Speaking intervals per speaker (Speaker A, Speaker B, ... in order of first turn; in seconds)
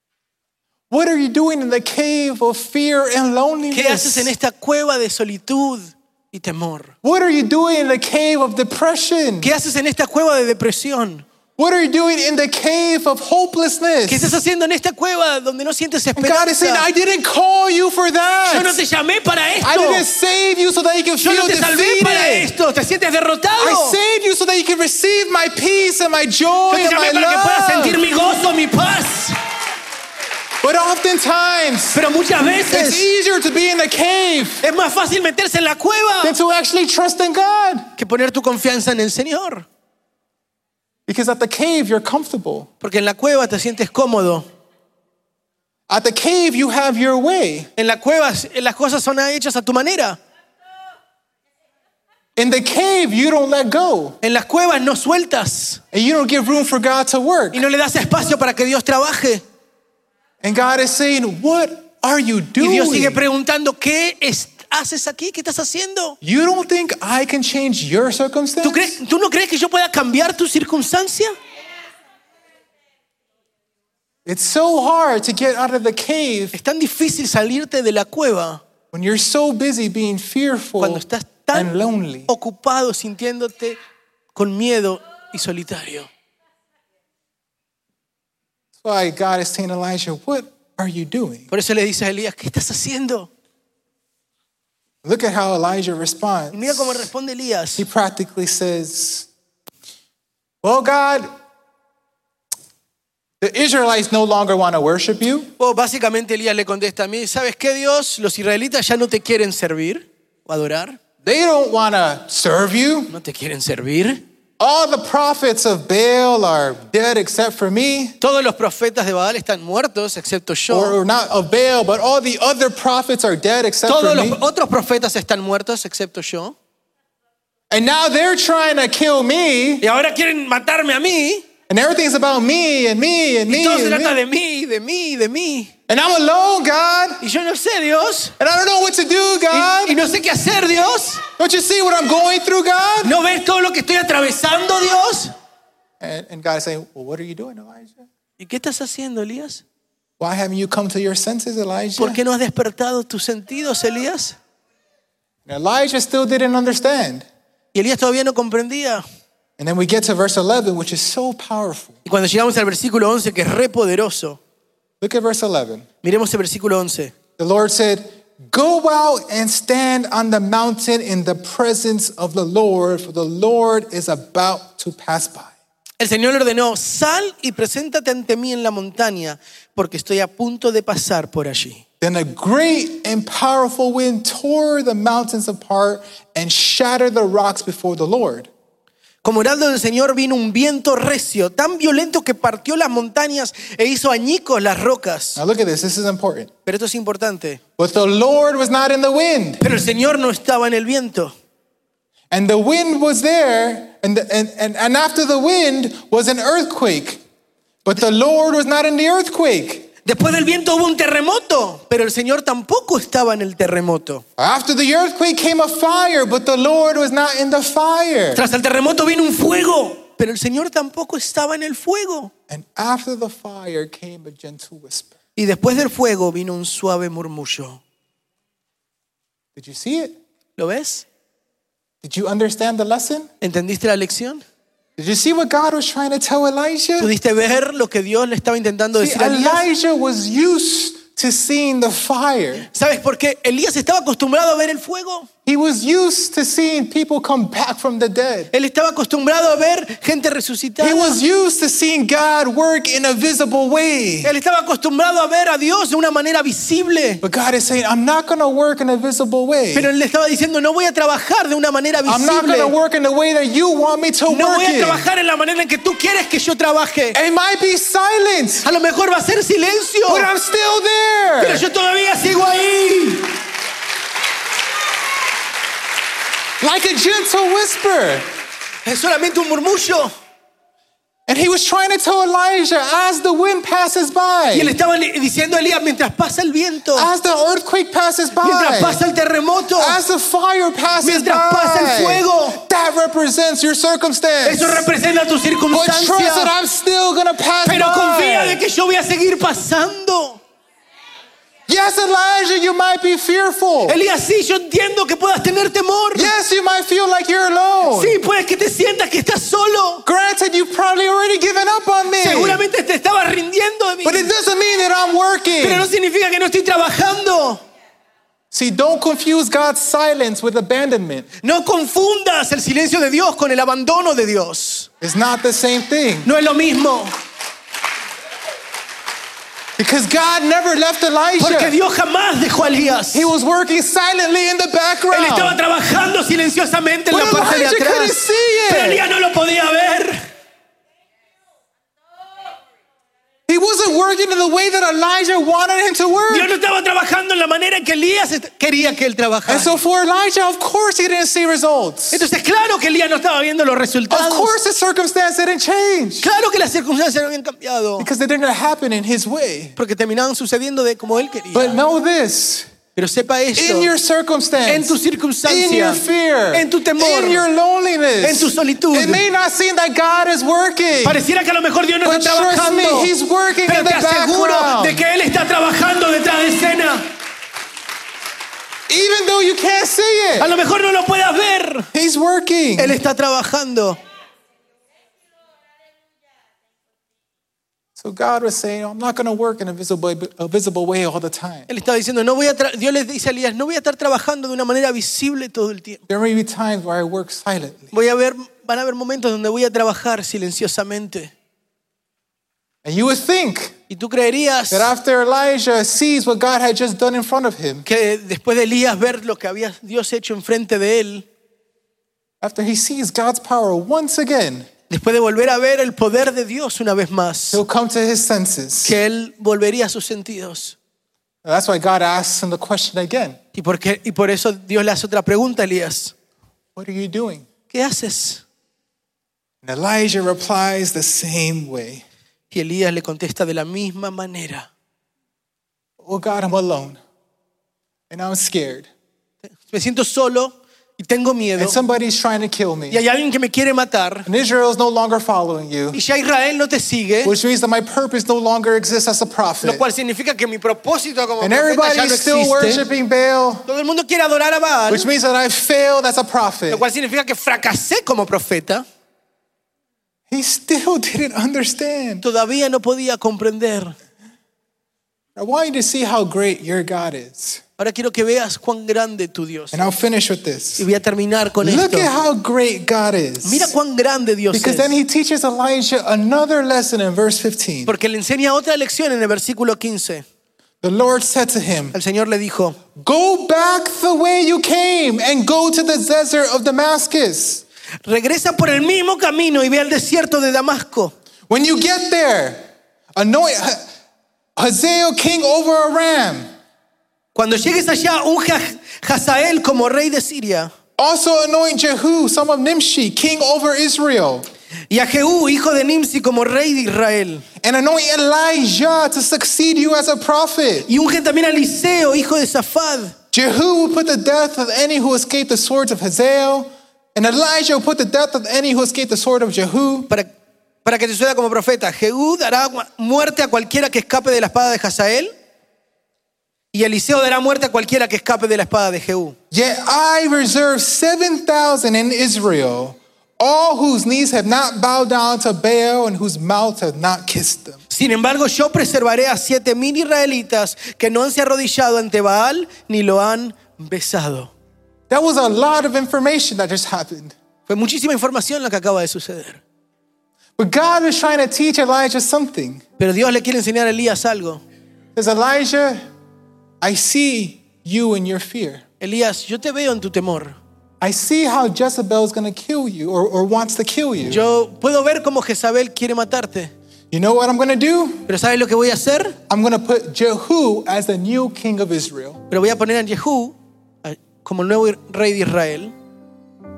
Speaker A: 0.9-4.3, 7.0-9.5, 11.6-14.4, 16.2-18.8, 19.6-22.5, 23.6-28.0, 30.6-32.0, 32.7-34.6, 36.2-37.9, 41.1-42.7, 45.9-47.7, 52.4-54.2, 55.9-57.6, 60.4-63.2, 66.2-69.0, 74.3-76.6, 78.9-82.3, 88.8-91.5, 95.0-97.1, 97.8-99.3, 100.6-101.3, 103.4-105.5, 111.2-113.1, 114.6-118.2, 120.7-124.4, 127.7-129.8, 131.7-134.2, 135.9-137.2, 138.4-140.0, 141.4-143.2, 146.0-148.0, 150.2-152.2, 155.5-157.3, 159.6-162.0, 165.0-165.9, 167.4-175.5, 182.0-188.5, 195.4-196.5, 197.8-199.6, 202.3-207.2, 207.8-209.9, 214.4-218.4, 222.5-225.2, 229.6-230.2, 232.0-233.3, 235.0-237.1, 239.0-242.7, 245.5-248.5, 250.8-254.3, 257.2-259.9, 262.1-265.1, 267.1-268.7, 270.1-271.6, 276.6-278.2, 281.3-284.8, 286.9-289.0, 289.8-294.9, 295.7-298.6, 301.7-304.0, 306.1-308.2, 310.1-312.6, 314.0-315.9, 318.5-321.3, 325.0-326.3, 329.8-331.8, 333.1-335.6, 337.1-339.0, 343.5-346.5, 349.5-352.2, 354.1-356.3, 358.0-359.8, 361.5-362.7, 363.6-371.2, 372.0-375.0, 378.9-380.5, 381.9-383.0, 388.0-391.7, 396.1-397.9, 402.9-403.8, 404.7-407.9, 412.4-414.7, 417.5-419.0, 421.4-423.4, 426.8-427.5, 429.6-432.1, 436.0-437.0, 438.1-438.9, 441.6-443.0, 444.3-446.0, 447.2-449.8, 451.4-453.6, 454.9-456.8, 460.3-462.2, 465.4-467.6, 469.7-470.9, 471.6-473.8, 474.5-477.9, 480.8-482.0, 482.9-487.6, 491.5-492.6, 493.2-493.9, 494.6-496.5, 501.0-504.5, 507.6-510.9, 513.3-520.1, 529.5-537.8, 545.1-547.4, 550.6-552.8, 555.1-556.0, 556.8-558.8, 561.0-564.4, 567.1-568.3, 569.5-572.4
Speaker B: 3.7-6.9, 9.4-11.2, 14.1-16.9, 18.5-20.1, 21.2-24.0, 26.7-29.4, 31.9-33.1, 34.6-36.4, 38.0-39.7, 42.8-44.5, 47.8-50.2, 54.2-55.8, 57.5-59.4, 62.6-66.2, 68.6-71.4, 76.5-78.6, 80.8-81.8, 82.3-83.8, 84.3-86.1, 91.5-93.3, 96.5-97.8, 105.6-111.0, 113.1-114.2, 118.2-121.0, 123.9-126.5, 129.8-131.5, 133.5-135.7, 137.2-138.3, 139.5-141.2, 143.0-145.3, 148.4-149.6, 152.0-154.4, 157.7-159.0, 162.1-164.4, 166.0-167.2, 176.0-181.8, 189.2-195.4, 196.7-197.6, 199.6-201.3, 210.0-214.2, 218.3-222.3, 225.4-227.8, 230.6-231.1, 233.4-234.4, 237.0-239.7, 242.7-245.3, 248.5-251.2, 254.2-257.2, 259.7-262.7, 264.3-267.2, 268.6-270.3, 271.4-273.3, 278.9-280.1, 284.5-287.1, 288.4-290.0, 291.0-292.6, 294.4-296.5, 297.6-300.4, 303.9-306.3, 307.8-310.0, 312.1-314.3, 315.6-317.6, 321.4-324.9, 326.2-327.1, 331.4-333.3, 335.1-340.2, 346.3-349.8, 352.1-354.6, 356.2-358.1, 359.8-361.8, 363.0-363.9, 364.7-367.5, 368.2-369.2, 371.0-373.1, 373.6-377.1, 380.4-381.9, 382.8-384.0, 391.7-396.0, 397.9-401.3, 403.9-404.9, 407.9-411.3, 414.9-417.6, 418.8-420.8, 423.5-426.1, 427.7-428.4, 432.5-434.7, 439.5-441.8, 442.9-444.3, 445.9-447.4, 449.6-452.8, 453.7-455.1, 456.7-458.9, 462.2-463.9, 467.8-469.9, 470.8-472.1, 473.4-474.9, 477.9-480.2, 481.9-482.8, 488.1-491.1, 497.4-500.7, 504.9-507.4, 510.9-513.1, 520.9-525.3, 526.7-529.4, 537.9-544.5, 547.7-549.6, 553.0-554.6, 559.0-560.6, 564.3-566.7, 568.3-569.4, 572.5-575.9